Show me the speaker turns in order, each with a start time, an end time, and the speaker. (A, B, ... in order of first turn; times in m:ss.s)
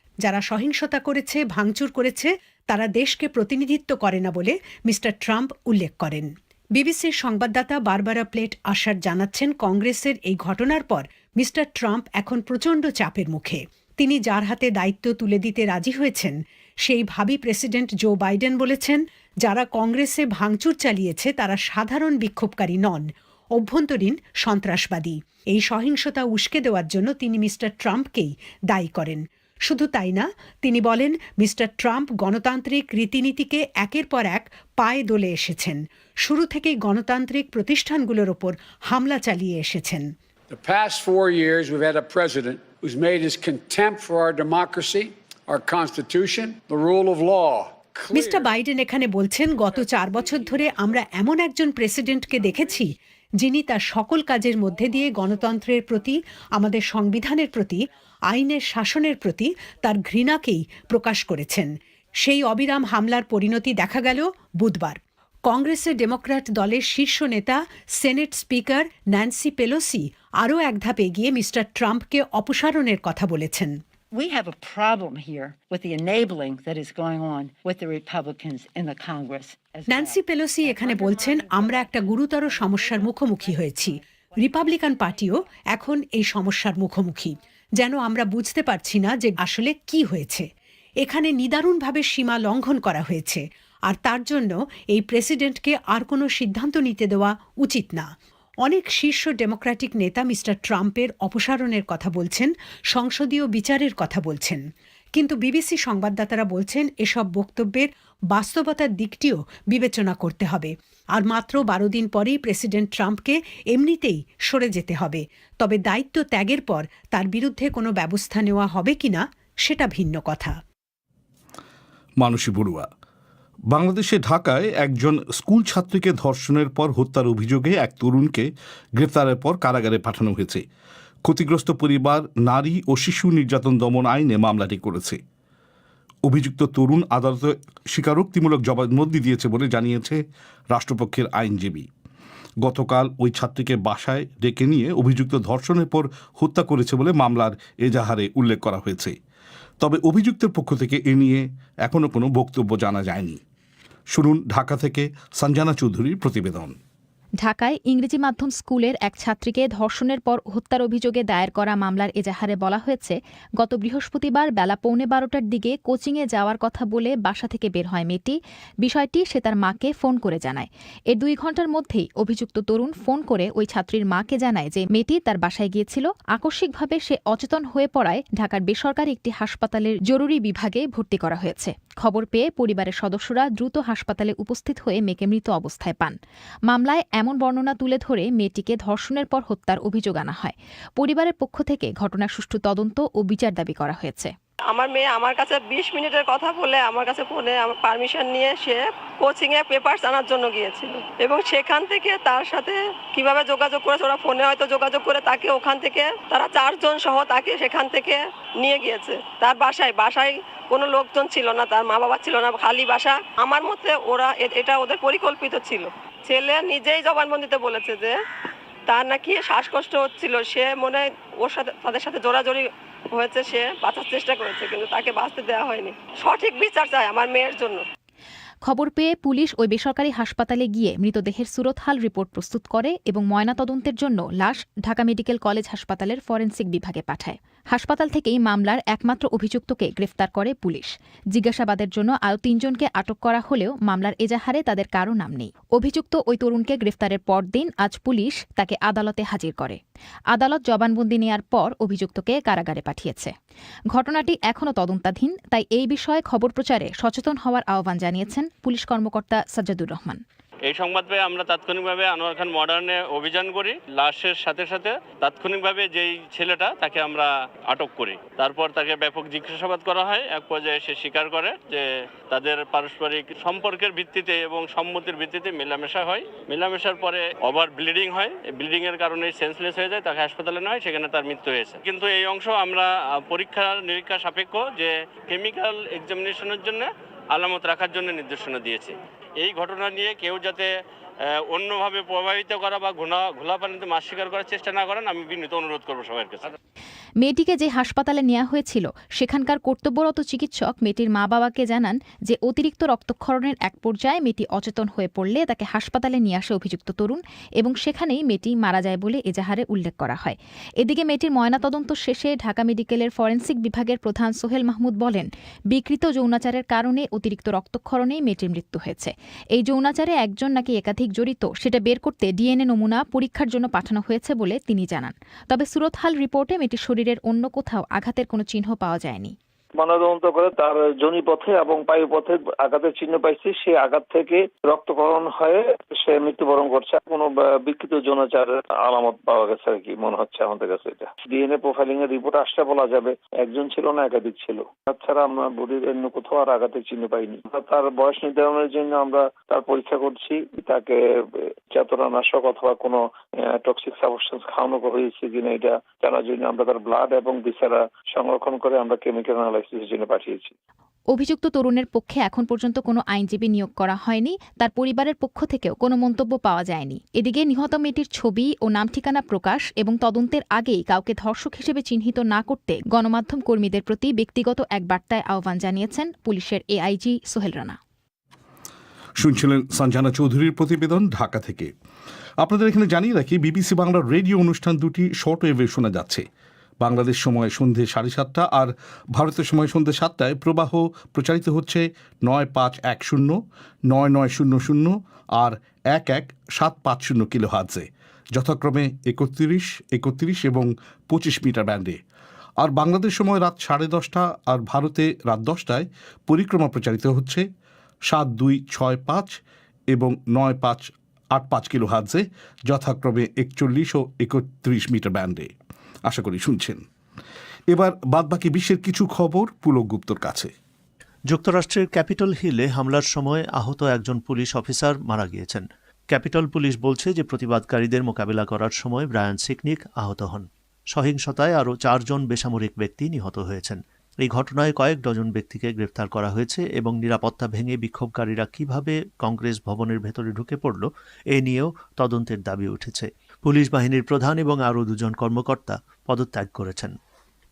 0:00.2-0:40.1 A
0:40.5-0:48.4 B
0:48.1-1:13.8 A
1:14.1-1:21.9 C
1:19.9-1:30.5 A
1:22.5-1:23.5 C
1:31.0-1:38.1 A
1:38.6-1:44.6 A
1:45.2-2:00.6 A
2:02.2-2:02.9 D
2:03.7-2:10.6 D
2:11.3-2:15.2 D
2:16.3-2:21.9 D
2:22.6-2:29.2 D
2:29.8-2:33.4 D
2:34.1-2:36.8 D
2:37.4-3:06.2 E
3:06.7-3:14.3 E
3:14.7-3:38.2 F
3:38.9-3:47.8 F
3:48.7-4:09.8 E
4:10.3-4:13.3 E
4:13.9-4:20.2 E
4:20.7-4:50.7 G
4:51.3-4:56.5 G
4:57.2-5:29.3 E
5:29.8-5:51.0 H
5:51.7-5:53.0 H
5:53.5-6:00.5 H
6:01.1-6:17.8 E
6:19.2-6:21.7 D
6:22.4-6:26.3 D
6:26.8-6:42.0 D
6:42.6-6:47.4 D
6:48.1-6:49.4 D
6:49.9-6:55.5 D
6:56.1-6:56.8 D
6:57.7-7:00.5 D
7:01.3-7:27.0 I